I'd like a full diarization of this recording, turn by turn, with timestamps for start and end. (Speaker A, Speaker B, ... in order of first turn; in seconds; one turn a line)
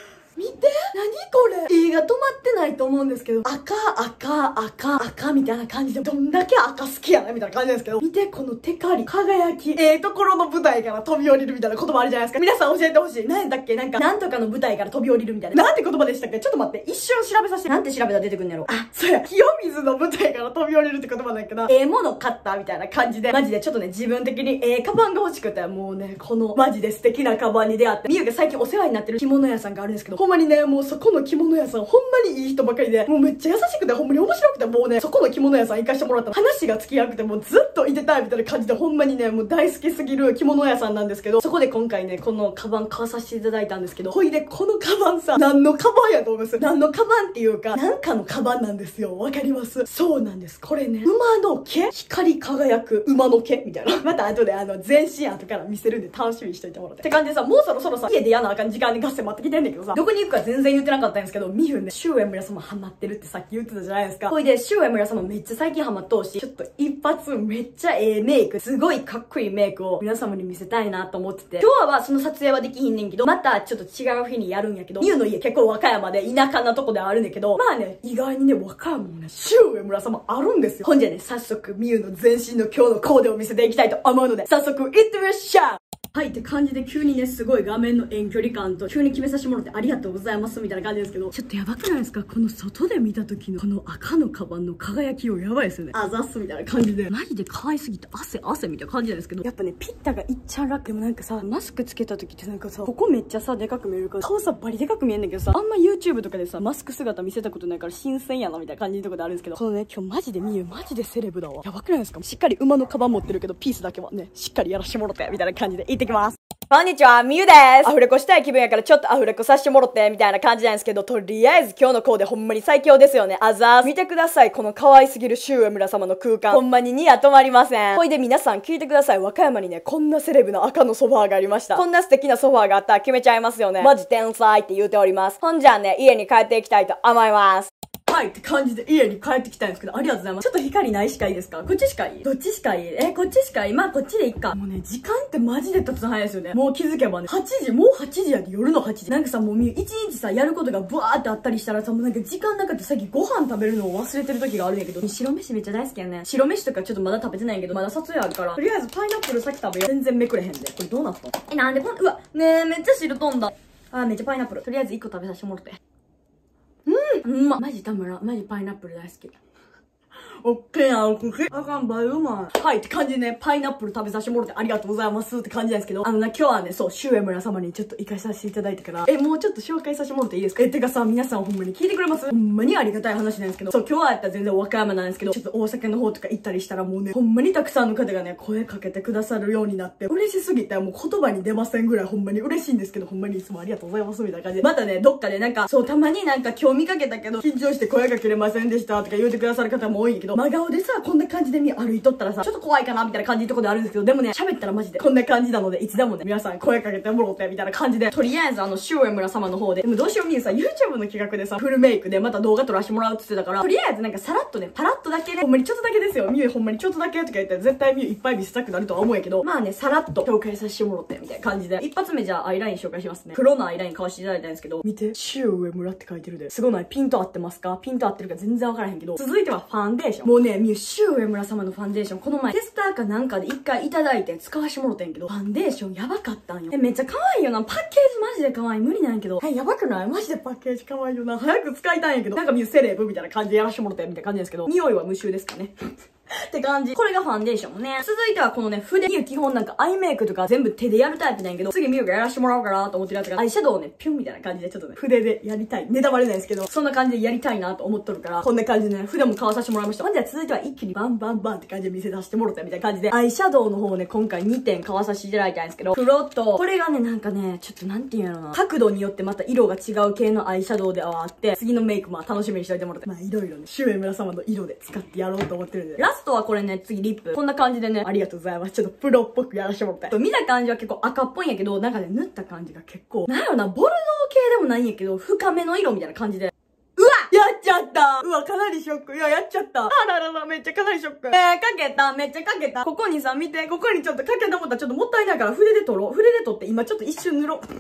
Speaker A: 0.3-165.8
Speaker A: 166.9-169.4
Speaker A: 170.4-297.6